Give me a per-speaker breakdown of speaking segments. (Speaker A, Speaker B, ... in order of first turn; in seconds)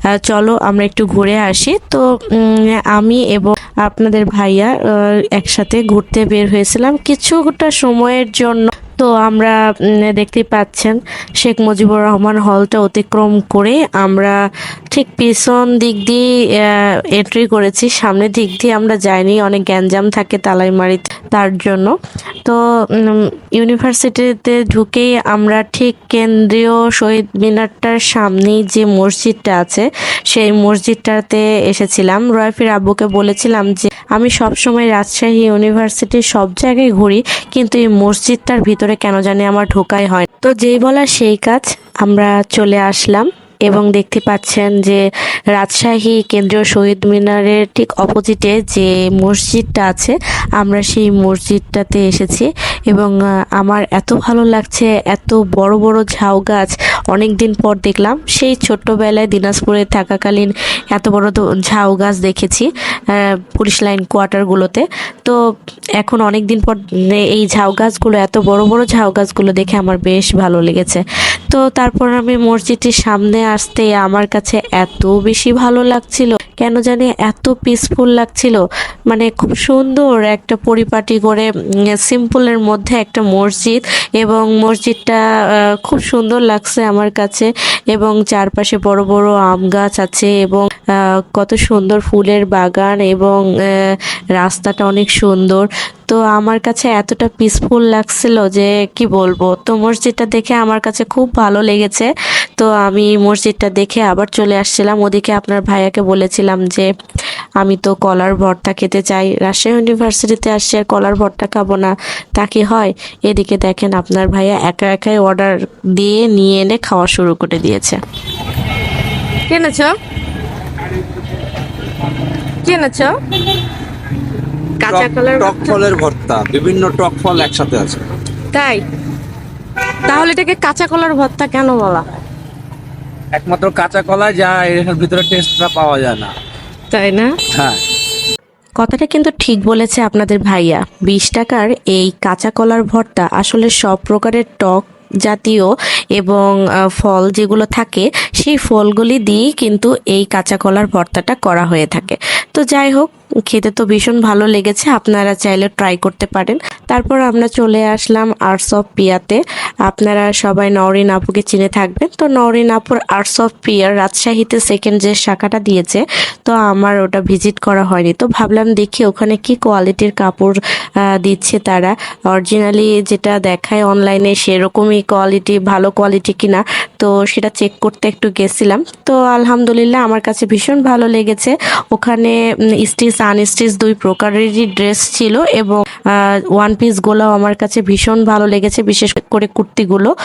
Speaker A: 0.3-4.7, 5.3-14.4, 14.9-21.9, 22.4-45.0, 45.5-65.4, 66.0-85.2, 85.8-106.9, 107.6-118.0, 138.8-170.6, 171.1-190.1
Speaker B: 119.5-119.9, 122.6-123.1, 124.8-125.8, 128.5-128.8, 130.1-132.1, 136.9-137.3
Speaker C: 124.9-128.0, 133.3-136.3, 137.5-137.8